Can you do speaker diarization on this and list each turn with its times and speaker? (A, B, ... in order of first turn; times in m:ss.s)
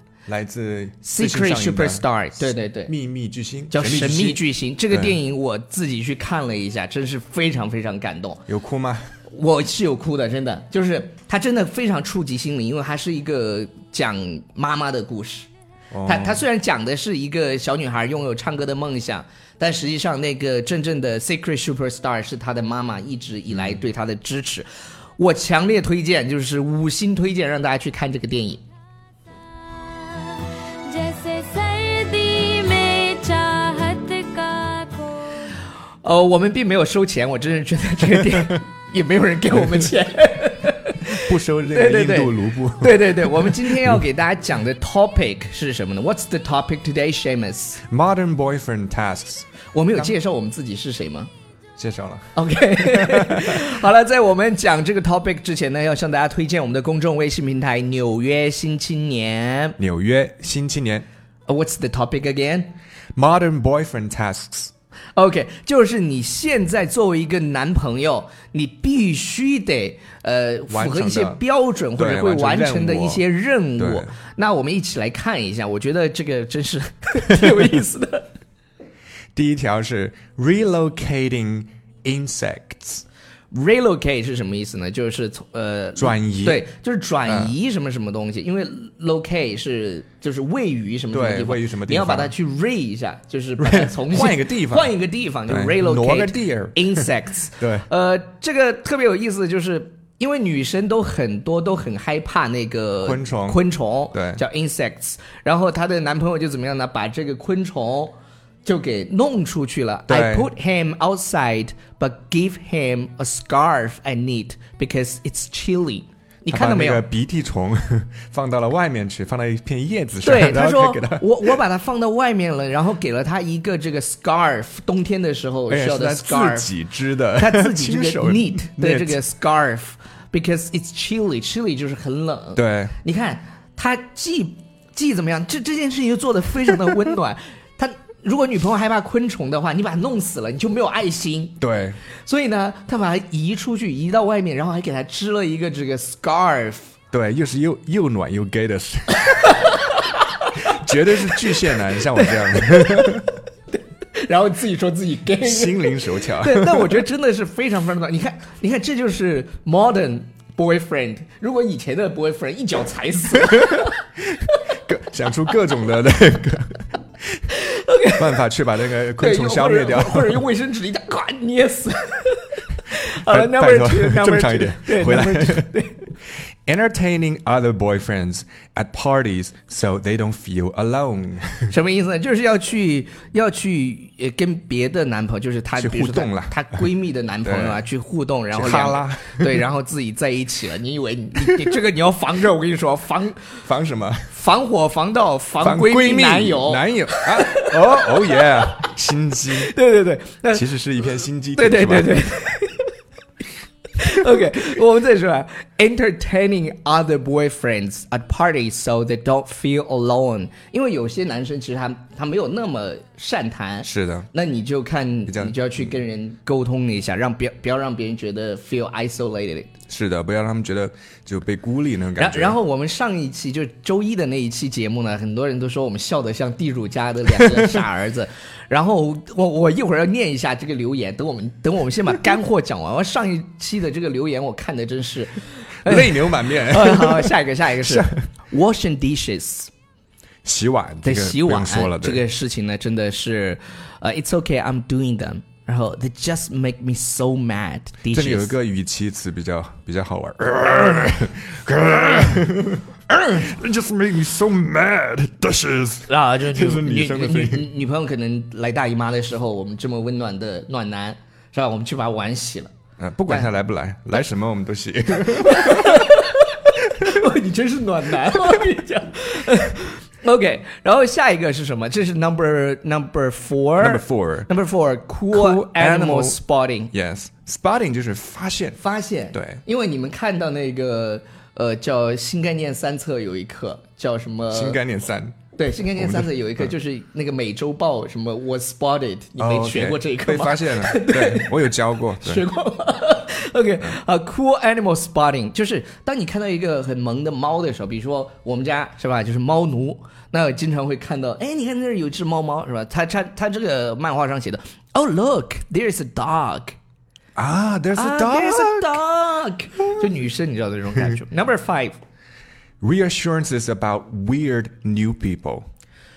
0:00.3-0:02.0 A
0:01.0-0:02.9 B
0:02.9-0:05.2 A
0:03.7-0:08.4 B
0:08.5-0:09.1 A
0:09.3-0:15.5 B
0:15.9-0:16.4 A
0:16.1-0:28.6 B
0:29.9-0:35.4 C
0:36.0-0:47.8 B
0:41.1-0:44.0 A
0:47.9-0:50.1 A
0:49.7-0:51.3 B
0:51.8-0:52.3 A
0:52.4-0:59.8 B
0:52.9-0:53.6 A
0:59.8-1:01.1 A
1:01.5-1:02.8 B
1:03.2-1:04.7 A
1:05.2-1:18.4 B
1:10.7-1:11.4 A
1:12.0-1:13.2 A
1:13.8-1:14.1 A
1:19.4-1:23.0 A
1:23.5-1:48.1 B
1:26.0-1:26.7 A
1:27.3-1:27.5 A
1:31.1-1:32.3 A
1:33.6-1:34.9 A
1:35.5-1:37.1 A
1:37.6-1:37.9 A
1:43.0-1:43.6 A
1:44.1-1:44.4 A
1:48.6-1:57.1 B
1:50.1-1:50.5 A
1:56.5-2:01.6 A
2:00.2-2:06.7 B
2:05.7-2:09.2 A
2:07.4-2:21.6 B
2:12.6-2:13.0 A
2:21.6-2:22.0 A
2:22.2-2:27.0 B
2:27.1-2:29.6 A
2:29.3-2:30.7 B
2:30.6-2:33.3 A
2:31.3-2:33.2 B
2:34.1-2:44.1 B
2:35.4-2:37.0 A
2:43.5-2:43.8 A
2:44.9-2:47.4 A
2:47.5-2:48.4 B
2:48.2-2:50.5 A
2:49.2-2:56.1 B
2:53.3-2:55.7 A
2:56.7-3:01.7 A
3:01.7-3:13.6 B
3:05.8-3:06.6 A
3:07.4-3:07.8 A
3:08.5-3:09.6 A
3:13.6-3:14.3 A
3:14.3-3:18.9 B
3:15.6-3:19.7 A
3:19.6-3:20.7 B
3:20.5-3:22.3 A
3:21.6-3:22.9 B
3:24.0-3:39.7 B
3:33.8-3:34.3 A
3:35.3-3:35.9 A
3:39.9-3:42.6 A
3:42.2-3:59.7 B
3:55.8-3:58.2 A
4:00.4-4:02.2 A
4:01.0-4:08.6 B
4:08.1-4:17.7 A
4:16.1-4:22.7 B
4:23.0-4:26.1 A
4:25.4-4:36.9 B
4:33.8-4:34.5 A
4:35.3-4:36.4 A
4:36.9-4:38.8 A
4:38.8-4:44.8 B
4:39.3-4:39.6 A
4:44.5-4:45.4 A
4:45.6-5:06.8 B
4:46.0-4:46.7 A
4:49.4-4:52.4 A
5:07.4-5:09.0 A
5:07.9-5:12.0 B
5:12.8-5:15.7 A